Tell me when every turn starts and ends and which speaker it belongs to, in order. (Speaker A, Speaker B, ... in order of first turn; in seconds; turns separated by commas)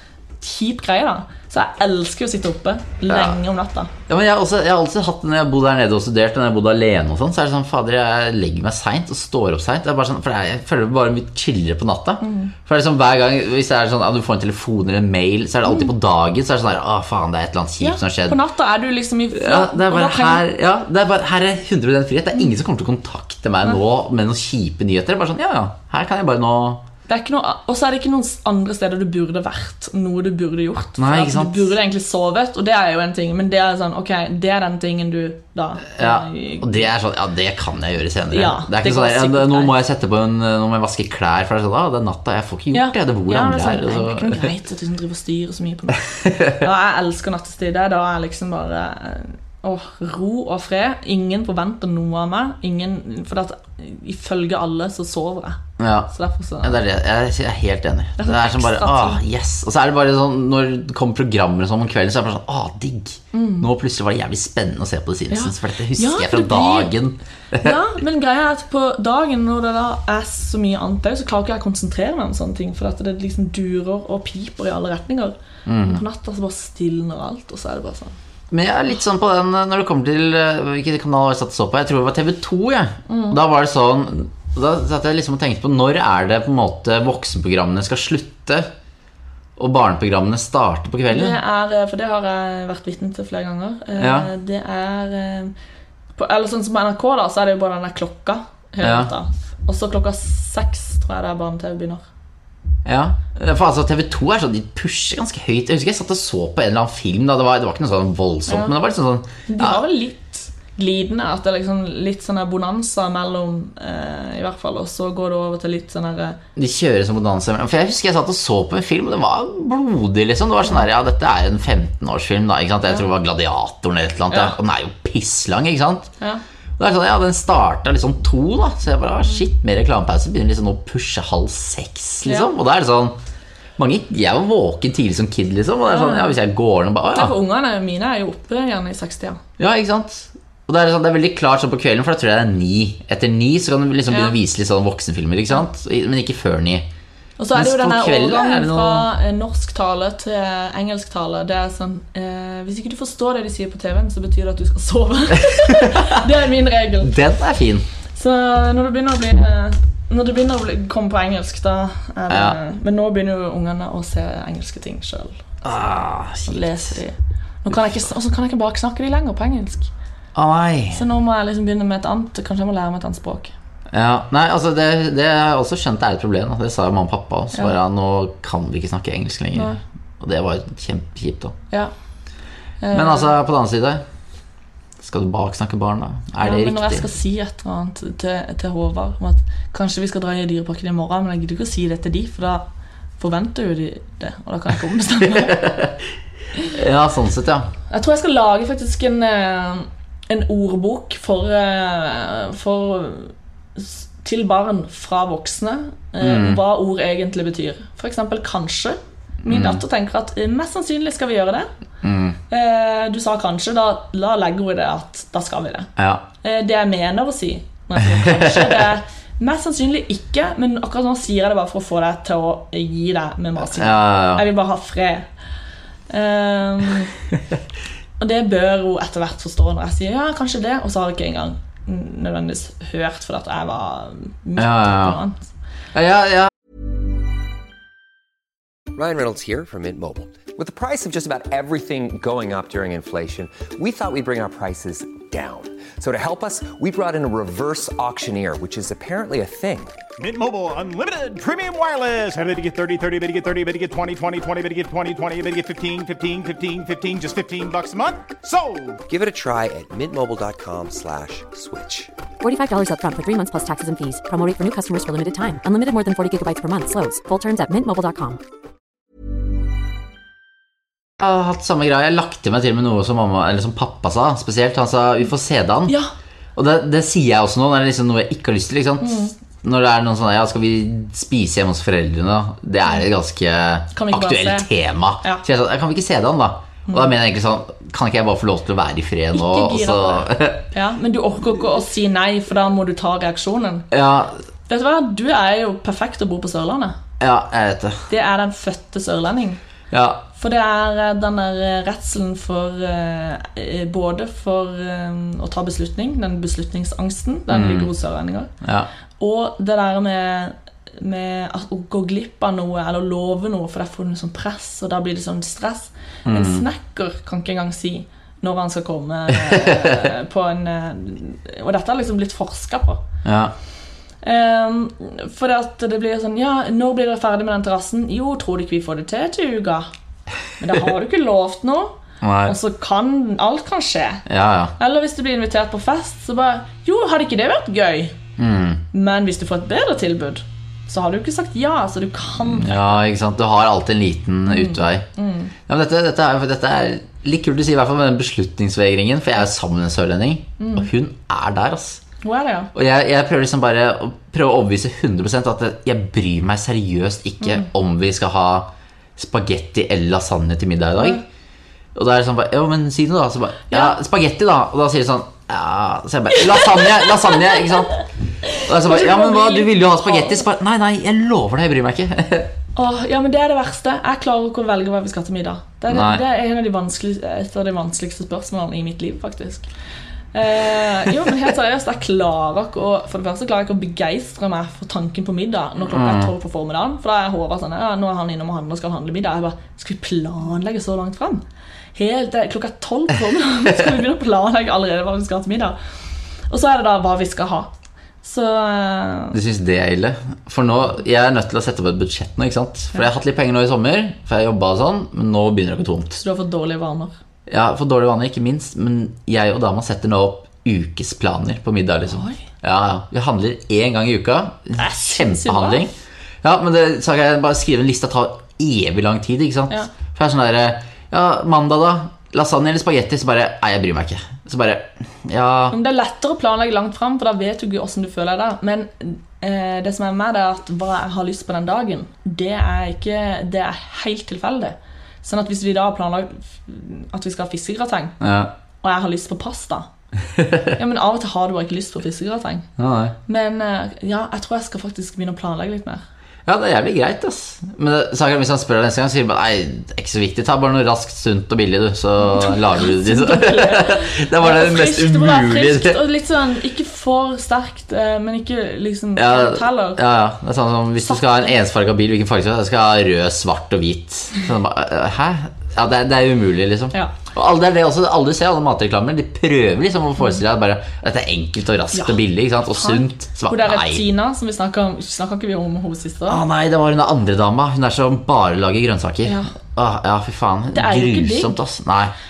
Speaker A: 0.4-3.9, Speaker B: 3.1-3.4, Speaker B: 4.1-18.4, Speaker A: 12.2-12.5, Speaker A: 17.8-20.4, Speaker B: 19.3-26.8, Speaker A: 27.1-36.9, Speaker B: 31.0-31.7, Speaker B: 35.9-44.5, Speaker A: 38.3-39.7, Speaker A: 42.7-56.8, Speaker B: 46.1-46.6, Speaker B: 55.8-56.1, Speaker B: 56.6-67.8, Speaker A: 58.2-59.2, Speaker A: 63.3-63.7, Speaker A: 65.3-66.9, Speaker A: 67.6-78.1, Speaker B: 75.7-76.0, Speaker B: 78.5-88.7, Speaker A: 83.1-83.4, Speaker B: 89.6-91.4, Speaker A: 91.1-95.5, Speaker B: 94.0-94.3, Speaker A: 96.2-102.0, Speaker B: 98.8-99.1, Speaker B: 102.8-109.8, Speaker A: 108.5-108.7, Speaker A: 109.5-116.4, Speaker B: 116.5-126.1, Speaker A: 124.3-124.5, Speaker B: 126.8-133.2, Speaker A: 132.2-132.5, Speaker B: 133.8-137.3, Speaker A: 135.9-136.3, Speaker A: 137.1-139.4, Speaker B: 139.6-146.9, Speaker A: 144.1-144.3, Speaker A: 147.4-157.1, Speaker B: 147.5-149.1, Speaker B: 155.4-156.1, Speaker B: 157.0-157.8, Speaker A: 158.1-165.4, Speaker B: 162.3-162.6, Speaker B: 165.6-167.0, Speaker A: 166.4-169.9, Speaker B: 170.3-171.0, Speaker A: 170.9-173.5, Speaker B: 173.9-181.5, Speaker A: 179.5-179.8, Speaker A: 182.8-183.3, Speaker B: 182.9-184.0, Speaker B: 185.0-187.1, Speaker A: 186.4-192.7, Speaker A: 193.2-195.8, Speaker B: 195.3-195.9, Speaker B: 196.7-197.7, Speaker A: 197.9-211.7, Speaker B: 206.2-206.6, Speaker B: 209.4-209.8, Speaker B: 212.0-212.4, Speaker A: 212.5-215.9, Speaker B: 216.0-216.2, Speaker A: 216.4-225.3, Speaker B: 218.0-218.8, Speaker B: 223.7-224.4, Speaker A: 226.1-227.1, Speaker A: 228.2-235.5, Speaker B: 234.6-235.2, Speaker B: 235.9-236.5, Speaker C: 238.9-250.0, Speaker D: 250.2-259.0, Speaker C: 259.1-262.1, Speaker E: 262.4-268.4, Speaker B: 271.2-275.9, Speaker A: 275.9-276.1, Speaker B: 276.5-290.6, Speaker A: 279.0-279.3, Speaker A: 283.9-284.7, Speaker A: 286.9-287.1, Speaker A: 289.3-293.9, Speaker B: 293.9-294.4, Speaker A: 294.7-297.0, Speaker B: 297.2-298.1, Speaker A: 298.1-299.6, Speaker B: 299.9-300.2, Speaker A: 300.3-308.5, Speaker B: 307.5-307.9, Speaker B: 308.6-308.9, Speaker A: 309.2-323.0, Speaker B: 316.2-316.6, Speaker B: 319.3-320.0, Speaker B: 323.2-323.5, Speaker A: 324.2-329.9, Speaker A: 330.6-331.9, Speaker B: 332.2-332.5, Speaker A: 332.4-334.2, Speaker B: 334.2-334.7, Speaker A: 334.8-338.1, Speaker B: 338.4-338.8, Speaker A: 338.9-343.0, Speaker B: 342.4-345.1, Speaker A: 344.5-345.5, Speaker B: 345.7-352.0, Speaker A: 350.6-350.9, Speaker A: 352.2-352.7, Speaker B: 352.7-361.2, Speaker A: 357.4-357.7, Speaker A: 361.0-361.2, Speaker B: 361.9-368.0, Speaker A: 363.7-363.9, Speaker A: 366.4-367.7, Speaker A: 368.4-370.4, Speaker B: 368.6-372.5, Speaker A: 372.8-379.7, Speaker B: 375.9-376.2, Speaker A: 380.3-391.4, Speaker B: 385.9-386.3, Speaker A: 391.9-395.8, Speaker A: 396.5-397.7, Speaker A: 398.2-399.4, Speaker B: 399.3-406.2, Speaker A: 406.2-407.1, Speaker B: 407.5-425.8, Speaker A: 412.1-412.4, Speaker A: 414.7-415.9, Speaker A: 425.7-438.1, Speaker B: 438.2-438.5, Speaker A: 438.8-439.9, Speaker B: 440.4-440.7, Speaker A: 440.8-442.7, Speaker B: 442.8-443.1, Speaker A: 443.3-446.0, Speaker B: 446.4-456.0, Speaker A: 452.2-460.0, Speaker B: 459.1-474.1, Speaker A: 461.0-461.5, Speaker A: 472.7-476.4, Speaker B: 476.3-482.1, Speaker A: 479.2-479.5, Speaker A: 480.7-481.5